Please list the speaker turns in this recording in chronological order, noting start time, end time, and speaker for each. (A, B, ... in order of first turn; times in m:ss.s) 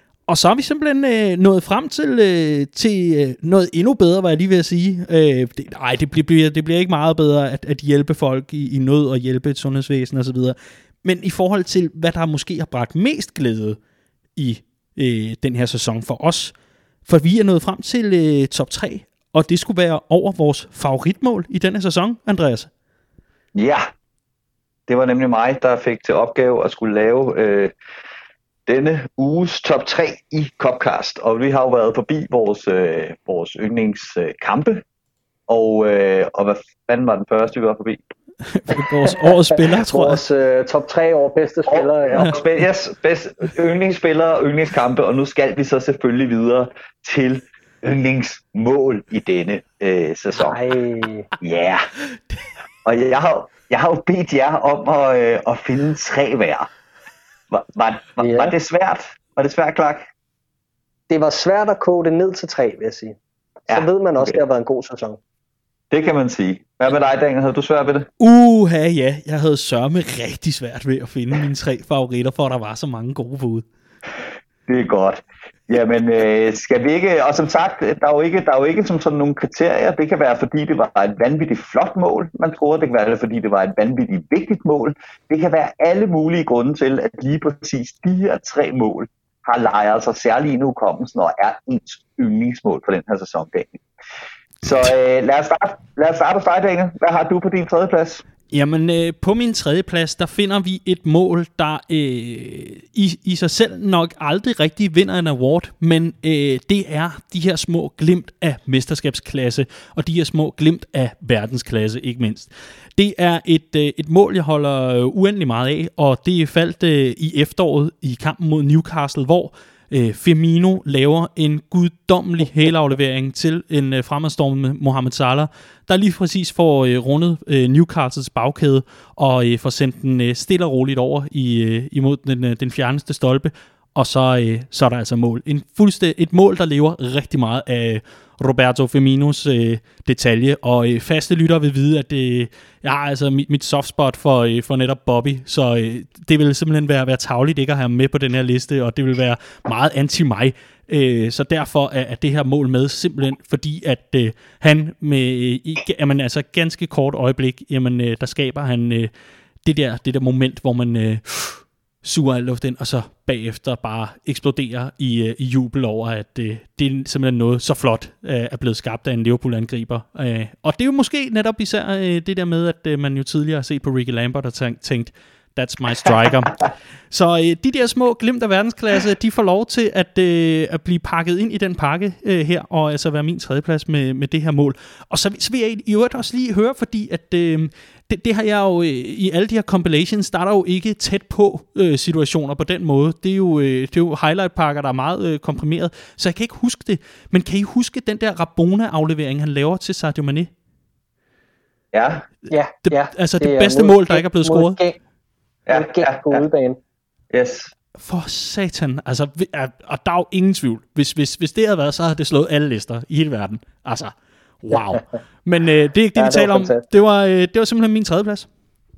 0:00.3-0:13.8 A
0:14.4-0:16.5 A
0:17.0-0:22.7 A
0:23.5-0:23.8 B
0:24.9-0:27.7 B
0:28.7-0:34.8 B
0:35.5-0:38.0 B
0:38.4-0:40.2 A
0:39.8-0:42.4 C
0:41.7-0:50.6 B
0:50.4-0:51.3 C
0:51.4-0:51.9 B
0:52.8-0:56.7 B
0:57.5-1:00.1 B
0:58.2-0:58.5 C
1:01.1-1:05.2 C
1:03.7-1:04.4 B
1:05.9-1:08.1 B
1:08.2-1:13.6 A
1:14.7-1:33.8 B
1:34.6-1:38.2 B
1:38.5-2:39.1 A
2:39.6-3:20.5 A
3:21.9-3:22.2 B
3:22.5-3:25.0 C
3:22.9-3:24.8 A
3:25.7-3:26.4 B
3:25.7-3:26.8 C
3:27.3-3:27.7 B
3:28.0-3:38.5 A
3:34.7-3:35.0 C
3:36.2-3:36.8 C